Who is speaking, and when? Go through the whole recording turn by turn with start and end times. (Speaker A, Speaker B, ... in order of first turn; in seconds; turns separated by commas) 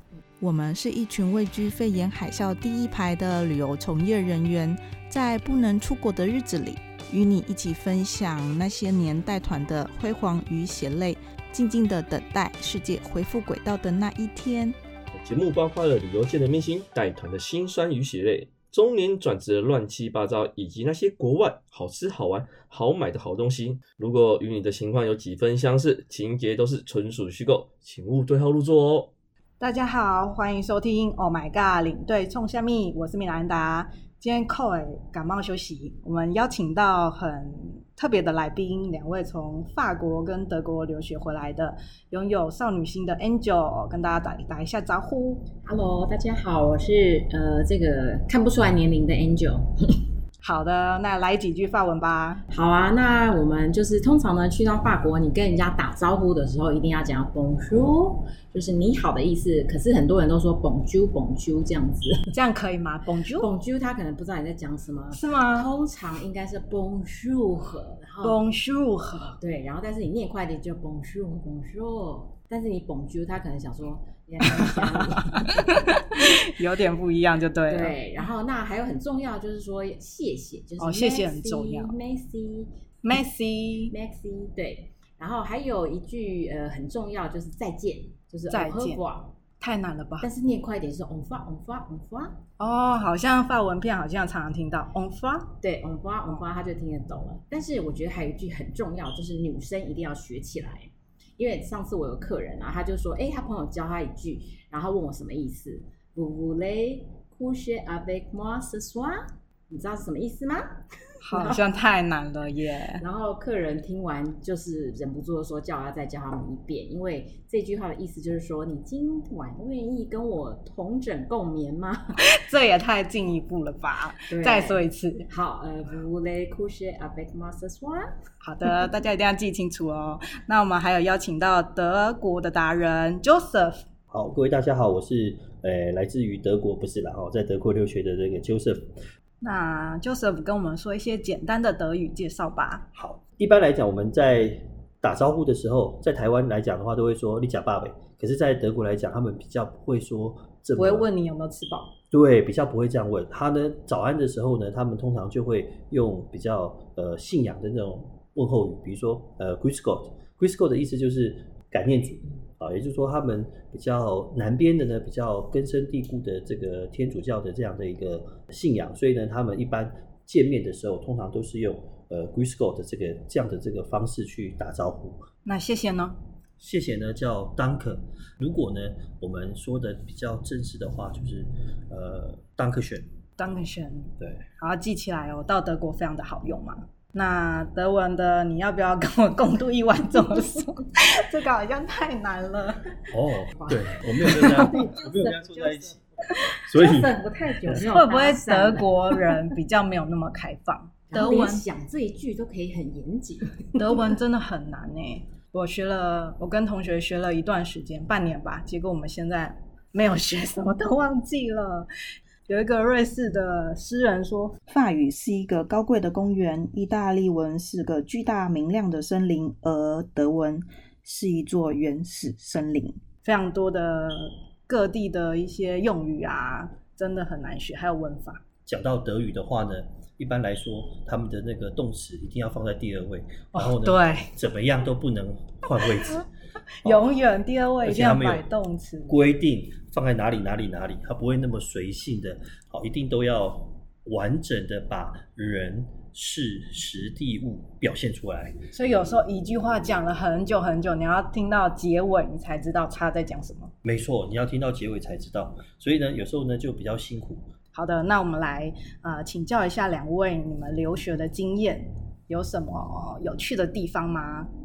Speaker A: 0.4-14.8, Speaker B: 15.1-29.1, Speaker C: 29.6-45.5, Speaker D: 45.6-50.0, Speaker C: 50.4-52.4, Speaker D: 52.5-62.3, Speaker C: 62.3-63.5, Speaker D: 63.4-68.4, Speaker C: 65.1-65.7, Speaker C: 68.2-69.4, Speaker D: 69.4-76.3, Speaker C: 74.4-78.0, Speaker D: 77.7-82.7, Speaker C: 80.8-81.9, Speaker C: 83.0-83.9, Speaker D: 83.9-89.3, Speaker C: 88.5-89.0, Speaker C: 89.6-90.3, Speaker D: 90.2-92.4, Speaker C: 92.6-95.6, Speaker D: 95.6-111.6, Speaker C: 111.2-113.0, Speaker D: 113.0-122.2, Speaker C: 122.2-125.3, Speaker D: 124.3-128.1, Speaker C: 128.4-133.8, Speaker E: 134.1-138.9, Speaker C: 139.4-142.8, Speaker E: 142.9-151.1, Speaker C: 150.8-151.9, Speaker E: 152.1-175.3, Speaker C: 175.4-176.2, Speaker E: 176.6-183.1, Speaker C: 183.4-193.0, Speaker E: 184.2-184.4, Speaker E: 193.1-196.0, Speaker D: 193.6-195.9, Speaker C: 194.2-194.9, Speaker E: 196.5-197.1, Speaker D: 196.5-199.5, Speaker C: 197.7-201.6, Speaker D: 201.1-204.1, Speaker C: 203.8-211.9, Speaker C: 212.5-214.6, Speaker F: 214.7-222.9, Speaker A: 221.2-222.8, Speaker C: 223.2-228.4, Speaker E: 228.7-236.2, Speaker C: 233.5-234.3, Speaker E: 236.8-237.1, Speaker C: 236.8-239.1, Speaker E: 237.8-238.4, Speaker E: 239.1-248.7, Speaker C: 248.7-253.7, Speaker E: 253.8-257.5, Speaker C: 257.7-264.5